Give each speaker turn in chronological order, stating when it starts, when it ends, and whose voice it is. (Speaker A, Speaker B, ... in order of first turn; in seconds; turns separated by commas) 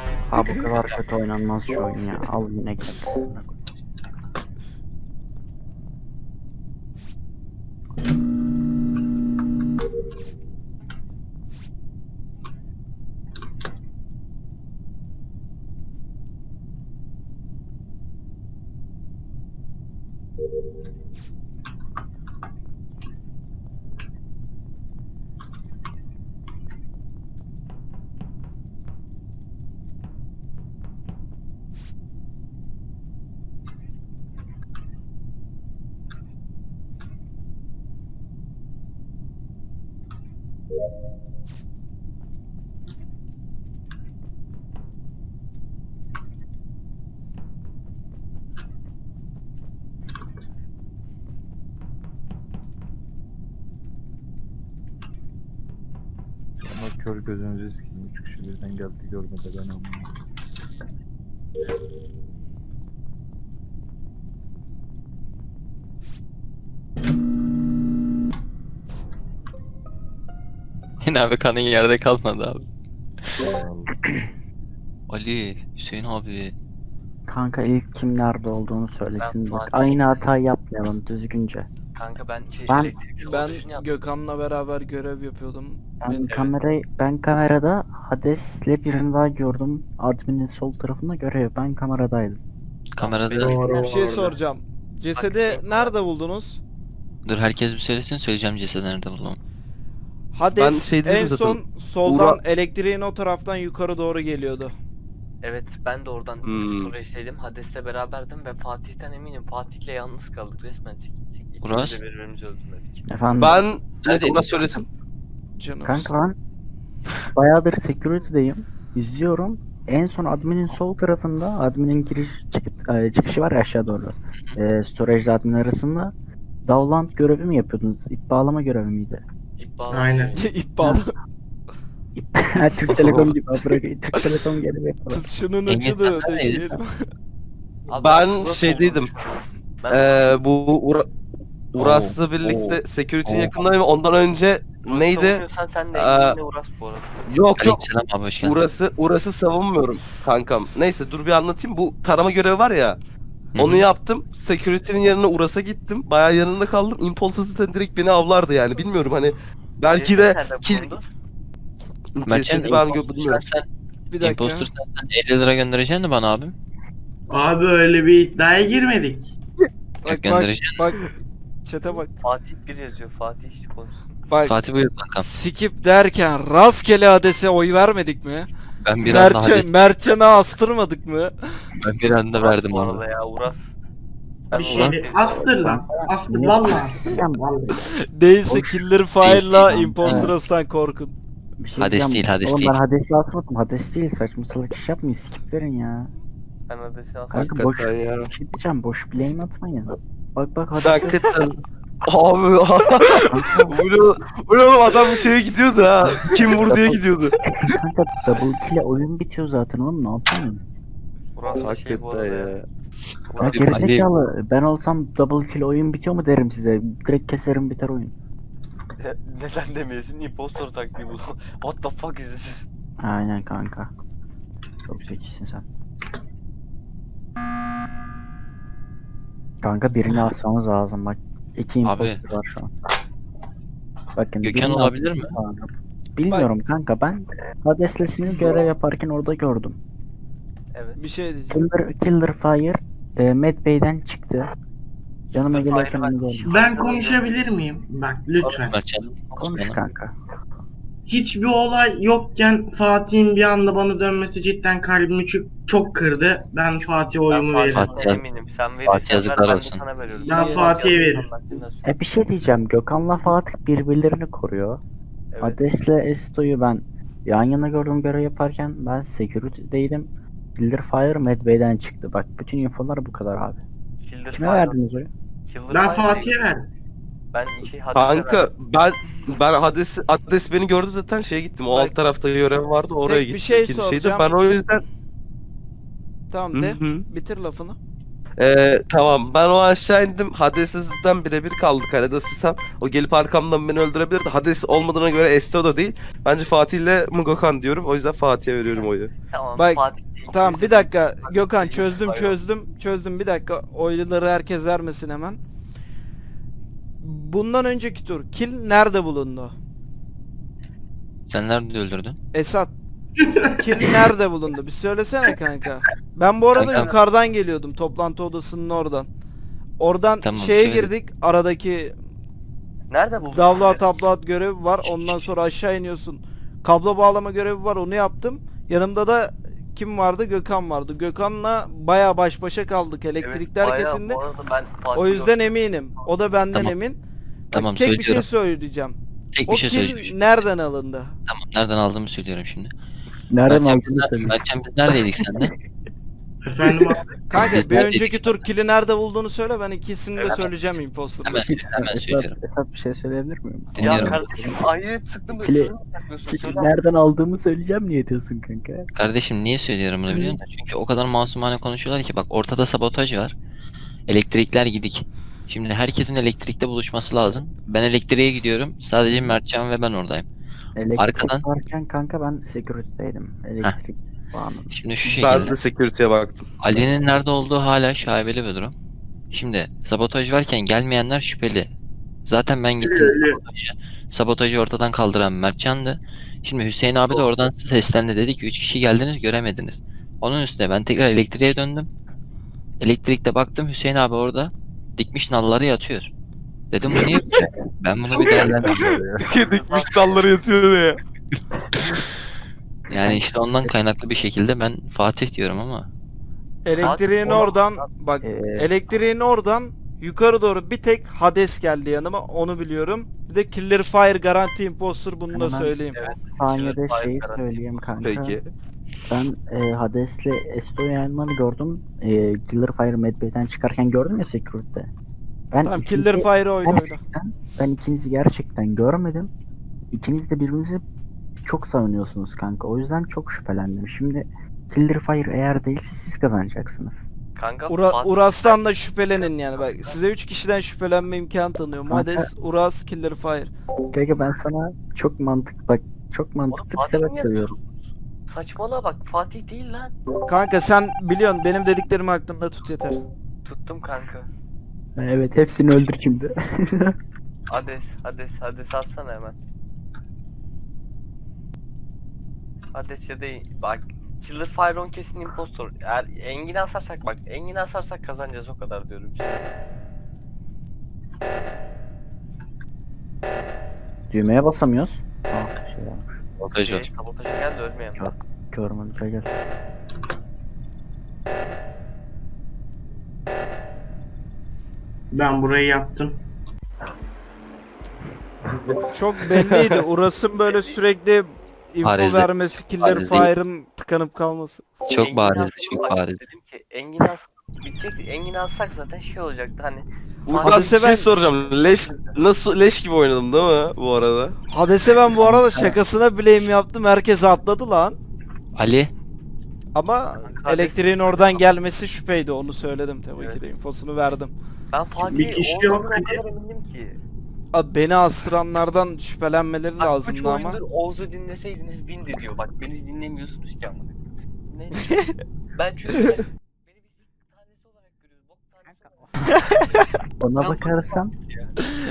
Speaker A: 0.3-3.6, Speaker B: 0.7-1.0, Speaker C: 56.6-60.1, Speaker D: 71.0-72.7, Speaker C: 73.4-73.9, Speaker D: 75.1-76.5, Speaker A: 77.3-81.7, Speaker B: 79.2-80.4, Speaker B: 81.9-83.9, Speaker A: 82.7-83.0, Speaker E: 83.2-86.3, Speaker A: 86.0-92.4, Speaker D: 92.9-93.6, Speaker B: 93.0-94.4, Speaker F: 93.4-94.2, Speaker E: 93.8-96.6, Speaker B: 95.1-95.9, Speaker D: 97.3-99.4, Speaker E: 100.3-104.7, Speaker G: 100.6-102.4, Speaker B: 105.4-113.0, Speaker G: 106.5-106.9, Speaker D: 111.6-112.0, Speaker A: 113.1-113.6, Speaker G: 113.4-114.9, Speaker D: 114.0-114.4, Speaker E: 115.6-116.1, Speaker A: 115.8-116.3, Speaker A: 117.3-126.1, Speaker A: 126.7-129.2, Speaker B: 129.6-130.5, Speaker F: 129.9-130.3, Speaker E: 130.3-131.1, Speaker A: 132.2-135.3, Speaker G: 133.0-133.4, Speaker E: 135.1-136.9, Speaker D: 135.7-136.8, Speaker B: 137.9-140.4, Speaker G: 138.0-139.1, Speaker G: 139.9-141.1, Speaker G: 141.7-146.4, Speaker D: 141.8-143.5, Speaker B: 144.9-147.2, Speaker G: 147.3-147.9, Speaker D: 147.6-148.6, Speaker G: 148.4-153.0, Speaker D: 153.6-153.8, Speaker G: 153.6-160.9, Speaker B: 159.9-161.1, Speaker G: 162.2-163.4, Speaker D: 162.2-163.7, Speaker E: 164.1-164.7, Speaker D: 164.2-166.6, Speaker F: 167.3-169.3, Speaker E: 170.1-171.1, Speaker D: 170.1-170.8, Speaker E: 171.7-172.1, Speaker B: 171.9-174.2, Speaker E: 174.3-174.6, Speaker D: 174.5-175.3, Speaker E: 175.2-178.5, Speaker D: 178.8-179.7, Speaker E: 179.0-181.3, Speaker D: 181.8-183.0, Speaker B: 182.3-183.7, Speaker F: 184.5-187.8, Speaker D: 184.5-185.0, Speaker B: 184.6-185.6, Speaker A: 185.6-187.4, Speaker E: 188.2-191.2, Speaker A: 188.5-190.3, Speaker D: 189.2-190.3, Speaker A: 191.6-196.1, Speaker D: 191.8-192.8, Speaker B: 196.7-197.7, Speaker A: 197.3-201.2, Speaker G: 197.4-198.3, Speaker G: 200.8-207.4, Speaker A: 203.3-203.8, Speaker A: 206.5-207.0, Speaker A: 207.6-210.6, Speaker B: 211.4-212.6, Speaker G: 211.6-212.7, Speaker B: 213.3-213.8, Speaker A: 213.4-218.1, Speaker D: 213.5-214.1, Speaker B: 219.0-222.7, Speaker A: 223.0-223.9, Speaker A: 224.9-225.7, Speaker A: 229.6-232.7, Speaker D: 231.8-232.2, Speaker A: 234.2-239.8, Speaker D: 234.4-235.3, Speaker B: 240.7-241.0, Speaker E: 241.0-241.6, Speaker A: 241.5-244.5, Speaker A: 245.3-246.5, Speaker B: 245.5-247.3, Speaker F: 246.4-248.8, Speaker D: 248.4-249.8, Speaker A: 249.4-250.1, Speaker F: 251.1-258.1, Speaker B: 257.2-262.0, Speaker D: 257.8-258.2, Speaker D: 258.9-259.8, Speaker E: 260.1-260.9, Speaker F: 260.3-261.3, Speaker A: 261.8-264.8, Speaker B: 265.3-265.6, Speaker A: 265.4-273.6, Speaker B: 274.0-274.8, Speaker A: 274.3-275.1, Speaker B: 275.5-276.4, Speaker F: 275.7-276.7, Speaker B: 277.3-278.5, Speaker G: 277.6-284.9, Speaker E: 281.7-282.0, Speaker E: 283.1-284.3, Speaker E: 286.3-287.8, Speaker G: 286.5-287.1, Speaker G: 288.4-299.1, Speaker B: 298.7-302.4, Speaker E: 299.6-305.4, Speaker E: 307.0-309.6, Speaker D: 311.3-312.2, Speaker E: 312.3-312.7, Speaker F: 313.2-313.9, Speaker E: 313.6-319.1, Speaker D: 316.6-316.9, Speaker B: 316.6-317.0, Speaker E: 319.8-321.9, Speaker D: 320.2-320.9, Speaker B: 322.9-323.9, Speaker E: 323.3-334.2, Speaker B: 324.9-325.3, Speaker B: 333.2-335.5, Speaker E: 334.9-337.0, Speaker E: 337.5-341.1, Speaker D: 337.5-338.3, Speaker D: 339.3-340.4, Speaker D: 341.3-342.7, Speaker A: 343.3-344.4, Speaker D: 343.5-345.5, Speaker A: 345.1-345.5, Speaker F: 346.5-347.0, Speaker E: 347.3-351.4, Speaker D: 347.4-348.4, Speaker D: 350.2-350.5, Speaker D: 351.2-352.4, Speaker A: 351.3-354.6, Speaker D: 353.8-354.3, Speaker B: 353.8-356.7, Speaker A: 355.4-355.7, Speaker A: 356.3-358.9, Speaker D: 358.9-363.4, Speaker A: 360.1-360.4, Speaker D: 364.1-370.3, Speaker A: 369.1-369.4, Speaker A: 370.8-374.8, Speaker D: 371.0-371.4, Speaker D: 374.7-375.6, Speaker G: 375.1-376.5, Speaker D: 376.6-378.8, Speaker D: 379.3-381.7, Speaker D: 382.3-391.9, Speaker F: 382.8-383.4, Speaker D: 392.8-396.1, Speaker D: 396.7-398.9, Speaker G: 398.1-401.0, Speaker A: 398.8-399.2, Speaker B: 399.2-400.2, Speaker D: 402.9-405.9, Speaker A: 402.9-403.7, Speaker E: 406.6-415.9, Speaker B: 406.8-407.9, Speaker A: 408.2-408.7, Speaker A: 415.3-418.4, Speaker B: 415.9-417.7, Speaker G: 418.0-418.5, Speaker A: 419.1-424.9, Speaker A: 425.5-429.3, Speaker E: 425.6-427.0, Speaker A: 429.9-430.8, Speaker A: 431.4-437.1, Speaker B: 437.4-438.6, Speaker E: 437.7-443.5, Speaker B: 439.2-440.0, Speaker A: 441.9-442.3, Speaker A: 443.9-447.6, Speaker B: 446.5-449.9, Speaker E: 450.3-453.0, Speaker B: 453.4-454.3, Speaker A: 455.0-456.9, Speaker B: 457.5-459.4, Speaker B: 462.7-469.5, Speaker A: 474.1-476.1, Speaker D: 476.4-476.9, Speaker B: 476.6-478.1, Speaker A: 478.0-479.3, Speaker F: 485.1-486.2, Speaker G: 488.5-489.9, Speaker E: 488.9-494.6, Speaker D: 491.8-493.3, Speaker D: 494.9-496.2, Speaker B: 495.0-502.2, Speaker G: 500.3-504.4, Speaker E: 500.4-501.1, Speaker E: 504.5-508.0, Speaker D: 505.3-505.7, Speaker D: 508.6-508.9, Speaker E: 509.8-514.3, Speaker B: 510.2-511.5, Speaker B: 514.7-517.0, Speaker F: 515.0-516.2, Speaker E: 517.5-520.6, Speaker B: 519.8-525.0, Speaker B: 525.5-529.3, Speaker A: 530.2-531.1, Speaker B: 530.4-531.5